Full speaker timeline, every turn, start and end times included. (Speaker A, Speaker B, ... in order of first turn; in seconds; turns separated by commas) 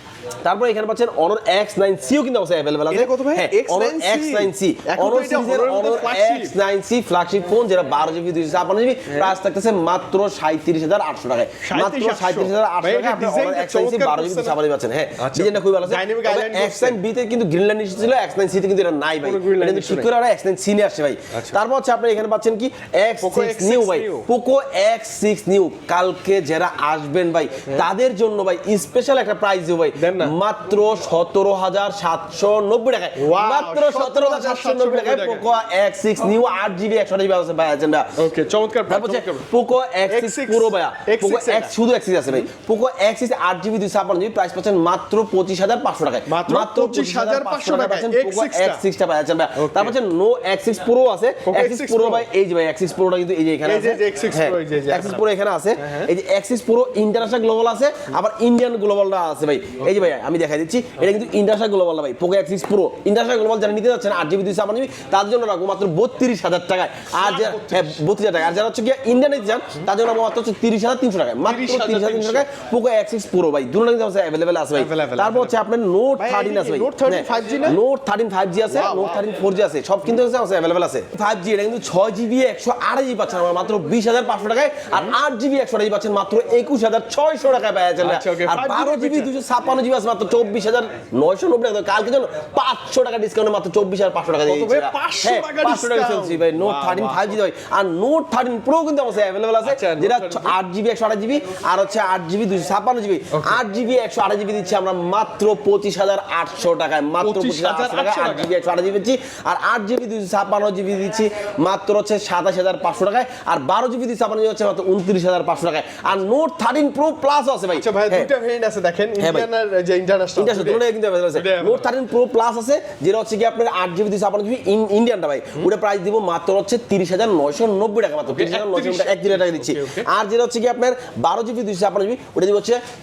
Speaker A: 0.4-38.2, Speaker B: 2.9-6.5, Speaker B: 9.1-9.4, Speaker B: 11.6-14.6, Speaker B: 15.2-17.0, Speaker B: 19.2-20.1, Speaker B: 21.3-21.6, Speaker B: 23.2-24.3, Speaker B: 30.0-30.4, Speaker B: 33.2-35.5, Speaker B: 38.2-39.5, Speaker A: 38.9-118.3, Speaker B: 40.1-41.7, Speaker B: 46.2-48.8, Speaker B: 49.5-50.0, Speaker B: 51.4-52.3, Speaker B: 53.6-55.2, Speaker B: 55.8-56.1, Speaker B: 67.1-68.0, Speaker B: 71.4-72.5, Speaker B: 74.7-75.6, Speaker B: 76.2-77.8, Speaker B: 78.7-79.2, Speaker B: 88.0-89.3, Speaker B: 94.4-97.4, Speaker B: 99.6-100.6, Speaker B: 103.3-103.6, Speaker B: 107.2-108.5, Speaker B: 117.7-121.9, Speaker A: 119.2-119.5, Speaker A: 120.3-132.8, Speaker B: 128.3-130.1